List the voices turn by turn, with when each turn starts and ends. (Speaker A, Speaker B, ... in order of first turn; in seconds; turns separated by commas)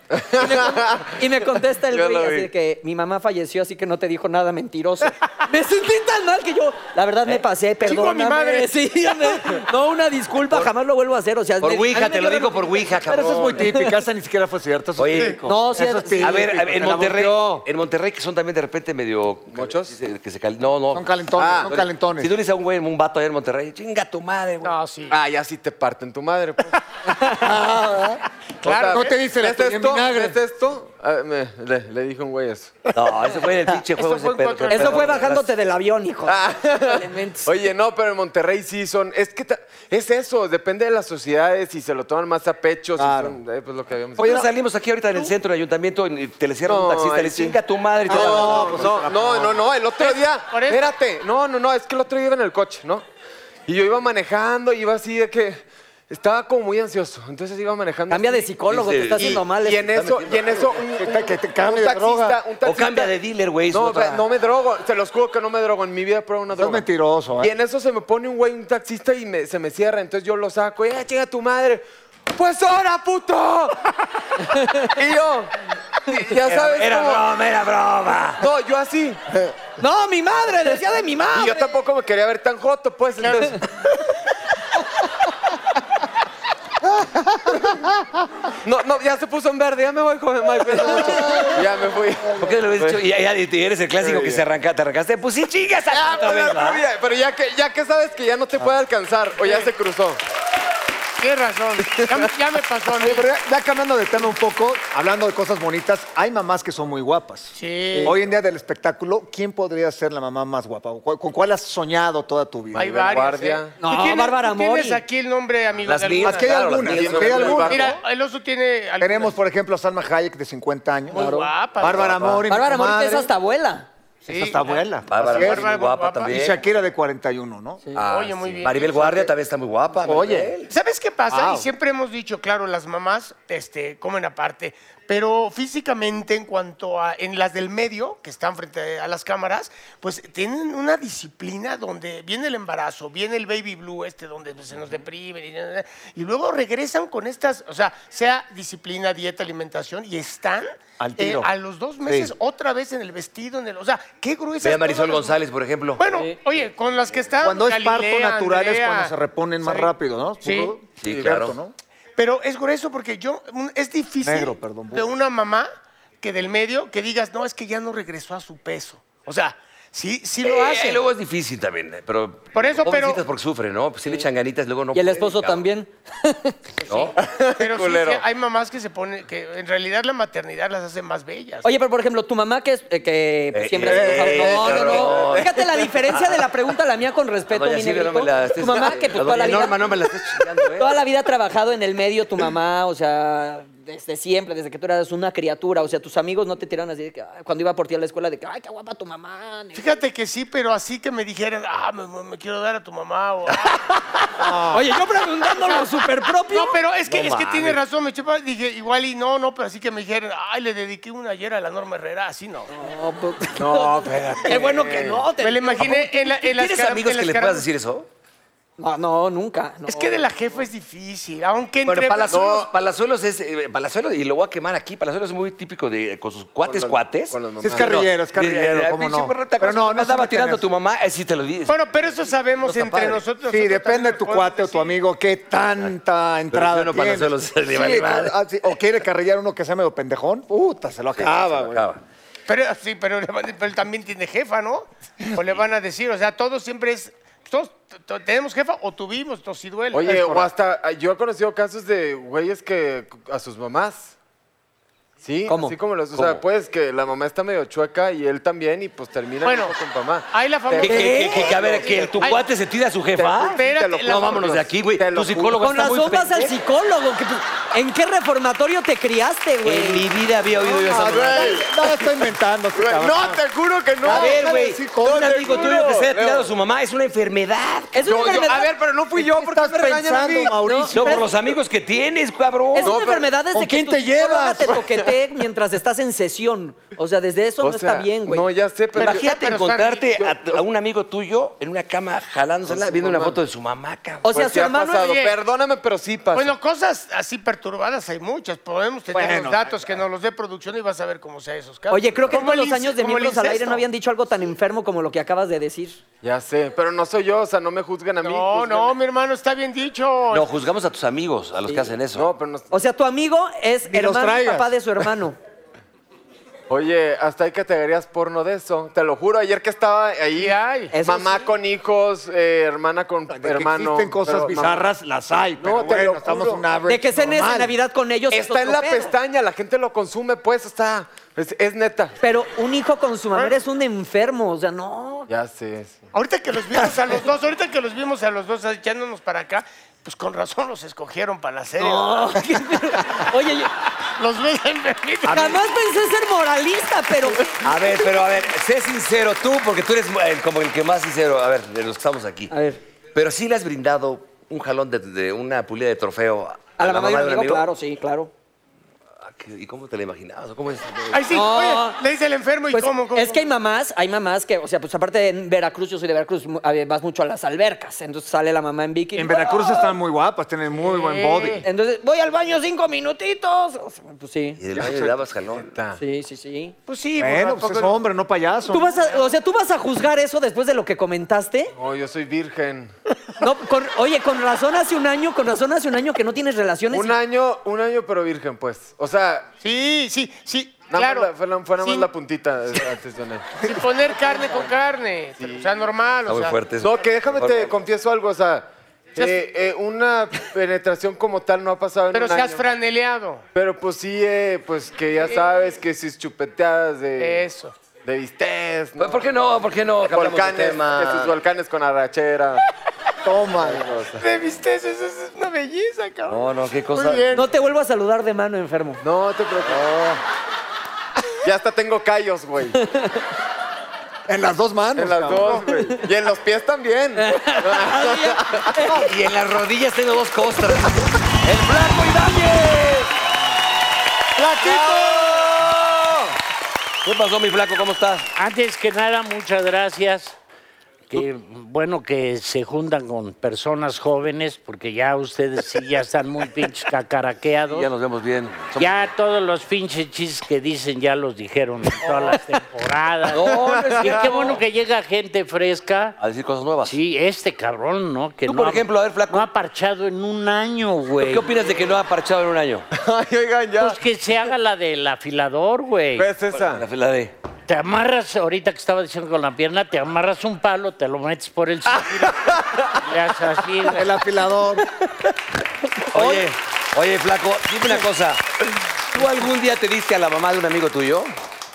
Speaker A: 0.1-2.5, Speaker B: 0.4-14.0, Speaker C: 7.8-9.4, Speaker D: 11.6-13.7, Speaker E: 13.1-17.7, Speaker D: 15.0-15.4, Speaker B: 15.4-16.4, Speaker D: 16.2-24.8, Speaker A: 19.5-19.9, Speaker E: 20.9-22.4, Speaker A: 21.4-21.7, Speaker C: 24.6-25.2, Speaker A: 25.1-26.8, Speaker E: 27.4-30.4, Speaker C: 28.6-29.2, Speaker A: 28.6-32.8, Speaker D: 32.9-35.5, Speaker C: 34.0-35.2, Speaker B: 34.7-37.5, Speaker A: 36.3-44.4, Speaker E: 43.0-43.4, Speaker D: 44.2-48.9, Speaker A: 46.7-47.6, Speaker E: 48.1-49.6, Speaker A: 48.1-53.0, Speaker C: 50.0-50.9, Speaker A: 53.7-58.5, Speaker B: 58.1-59.9, Speaker D: 58.7-60.8, Speaker A: 59.2-63.1, Speaker E: 61.0-62.4, Speaker D: 62.6-64.2, Speaker A: 63.7-66.8, Speaker E: 66.5-67.5, Speaker A: 67.4-73.9, Speaker A: 74.7-77.3, Speaker D: 76.5-78.4, Speaker A: 78.4-79.2, Speaker B: 79.8-81.7, Speaker A: 81.3-83.7, Speaker C: 83.2-83.5, Speaker E: 86.8-88.2, Speaker A: 88.6-93.0, Speaker E: 90.9-91.6, Speaker D: 92.4-96.8, Speaker A: 94.0-94.4, Speaker A: 95.9-100.2, Speaker C: 99.4-99.7, Speaker C: 101.2-103.3, Speaker A: 101.8-102.3, Speaker E: 103.0-113.2, Speaker C: 107.5-108.2, Speaker C: 112.7-116.8, Speaker A: 113.1-113.8, Speaker B: 113.8-115.0, Speaker D: 115.8-117.8, Speaker E: 116.2-118.0, Speaker A: 116.9-118.0, Speaker C: 117.5-119.4, Speaker E: 119.0-123.3, Speaker C: 121.1-122.3, Speaker B: 121.1-121.5, Speaker D: 122.0-122.3, Speaker B: 122.5-123.9, Speaker C: 124.3-126.5, Speaker E: 124.3-125.7, Speaker D: 125.1-126.6, Speaker E: 126.3-127.8, Speaker D: 128.0-130.7, Speaker C: 128.1-129.3, Speaker E: 130.0-130.6, Speaker C: 130.7-155.4, Speaker E: 131.3-131.7, Speaker E: 151.0-151.5, Speaker E: 152.1-152.3, Speaker D: 154.6-156.1, Speaker C: 156.0-160.8, Speaker E: 157.4-161.7, Speaker D: 161.0-161.6, Speaker A: 161.1-161.3, Speaker C: 162.2-165.7, Speaker E: 164.2-165.1, Speaker C: 166.2-171.1, Speaker D: 170.4-175.6, Speaker C: 172.5-173.2, Speaker B: 174.9-177.1, Speaker D: 176.9-177.1, Speaker A: 177.2-178.2, Speaker C: 177.6-181.7, Speaker B: 181.6-189.8, Speaker D: 183.5-185.6, Speaker E: 183.8-184.7, Speaker A: 184.3-185.7, Speaker D: 187.5-190.9, Speaker B: 190.8-200.0, Speaker C: 199.7-204.6, Speaker B: 204.4-206.8, Speaker E: 204.4-204.8, Speaker C: 205.6-205.9, Speaker C: 206.5-212.7, Speaker D: 207.1-207.8, Speaker B: 212.7-216.2, Speaker A: 213.6-215.3, Speaker C: 215.4-217.7, Speaker D: 215.8-218.1, Speaker B: 218.8-220.3, Speaker C: 219.9-222.5, Speaker D: 221.8-231.8, Speaker A: 222.3-222.7, Speaker A: 226.7-228.0, Speaker E: 227.6-230.6, Speaker C: 231.7-235.0, Speaker D: 232.7-233.2, Speaker E: 233.5-241.9, Speaker D: 236.5-238.3, Speaker D: 241.2-242.0, Speaker C: 242.5-250.2, Speaker A: 249.9-254.2, Speaker A: 255.2-262.3, Speaker B: 255.5-255.8, Speaker D: 256.1-256.4, Speaker C: 259.4-259.8, Speaker C: 260.3-261.5, Speaker D: 260.8-266.5, Speaker B: 261.1-261.5, Speaker A: 263.2-265.8, Speaker C: 263.5-264.4, Speaker B: 265.6-270.1, Speaker D: 269.6-271.6, Speaker E: 270.6-273.4, Speaker A: 270.8-271.7, Speaker A: 272.8-274.5, Speaker E: 274.0-275.8, Speaker D: 274.1-278.1, Speaker A: 275.0-276.5, Speaker B: 277.9-278.7, Speaker A: 278.0-280.8, Speaker E: 279.1-281.3, Speaker B: 280.7-281.3, Speaker D: 280.9-283.0, Speaker B: 282.7-288.4, Speaker A: 282.8-283.3, Speaker E: 283.5-284.9, Speaker A: 284.7-285.1, Speaker A: 287.6-289.4, Speaker C: 289.0-290.1, Speaker D: 289.0-294.3, Speaker A: 290.2-290.6, Speaker A: 292.7-293.4, Speaker B: 294.2-295.1, Speaker A: 294.3-296.5, Speaker C: 295.0-295.4, Speaker C: 296.3-303.8, Speaker E: 299.1-299.7, Speaker B: 301.9-306.0, Speaker A: 306.2-308.9, Speaker C: 308.2-310.5, Speaker D: 310.3-312.3, Speaker A: 312.1-312.7, Speaker B: 312.7-315.4, Speaker E: 313.9-315.1, Speaker A: 316.7-324.8, Speaker C: 320.4-321.0, Speaker B: 320.9-321.5, Speaker E: 323.3-327.8, Speaker A: 325.6-326.6, Speaker B: 326.9-329.1, Speaker A: 328.3-332.2, Speaker B: 332.2-335.3, Speaker A: 335.3-336.1, Speaker C: 336.1-342.4, Speaker B: 341.8-343.7, Speaker C: 344.2-345.6, Speaker B: 345.2-347.6, Speaker D: 347.6-352.5, Speaker B: 352.5-352.8, Speaker D: 353.1-357.6, Speaker B: 356.8-358.3, Speaker D: 359.2-361.4, Speaker C: 361.1-363.4, Speaker B: 361.3-362.0, Speaker B: 362.7-369.9, Speaker E: 369.1-371.7, Speaker C: 370.8-371.6, Speaker B: 371.6-374.6, Speaker D: 374.6-375.7, Speaker A: 374.8-375.1, Speaker A: 375.6-376.0, Speaker B: 376.0-376.8, Speaker C: 376.9-378.0, Speaker E: 377.2-379.0, Speaker B: 378.7-381.7, Speaker A: 381.8-382.9, Speaker B: 383.4-387.2, Speaker A: 386.9-389.5, Speaker C: 389.6-392.1, Speaker A: 390.9-393.7, Speaker C: 393.6-396.6, Speaker A: 395.4-395.8, Speaker D: 396.3-397.7, Speaker A: 396.8-402.7, Speaker C: 399.2-399.4, Speaker C: 402.1-403.4, Speaker A: 403.6-407.5, Speaker C: 405.2-405.5, Speaker C: 407.2-407.7, Speaker A: 408.0-409.3, Speaker D: 409.0-411.3, Speaker A: 410.0-412.6, Speaker E: 413.2-414.0, Speaker A: 413.6-414.2, Speaker C: 414.2-417.5, Speaker D: 416.3-417.3, Speaker B: 417.3-419.0, Speaker A: 419.0-420.1, Speaker E: 419.6-420.2, Speaker A: 421.4-422.8, Speaker B: 422.8-423.2, Speaker E: 424.3-425.7, Speaker A: 425.0-428.9, Speaker B: 427.1-429.1, Speaker D: 429.0-433.1, Speaker E: 434.6-434.9, Speaker D: 435.3-436.0, Speaker D: 437.0-438.3, Speaker F: 438.4-440.4, Speaker F: 441.1-447.9, Speaker D: 447.7-449.1, Speaker F: 448.8-456.2, Speaker D: 452.0-452.4, Speaker D: 453.3-454.6, Speaker A: 453.5-454.6, Speaker D: 456.2-457.0, Speaker F: 456.9-461.6, Speaker D: 458.5-459.5, Speaker D: 461.2-462.9, Speaker A: 462.9-464.0, Speaker F: 463.8-466.3, Speaker A: 466.2-466.8, Speaker D: 466.5-467.3, Speaker F: 467.7-472.3, Speaker A: 471.9-473.0, Speaker F: 473.0-474.1, Speaker E: 473.9-474.9, Speaker D: 476.1-481.3, Speaker B: 476.1-476.4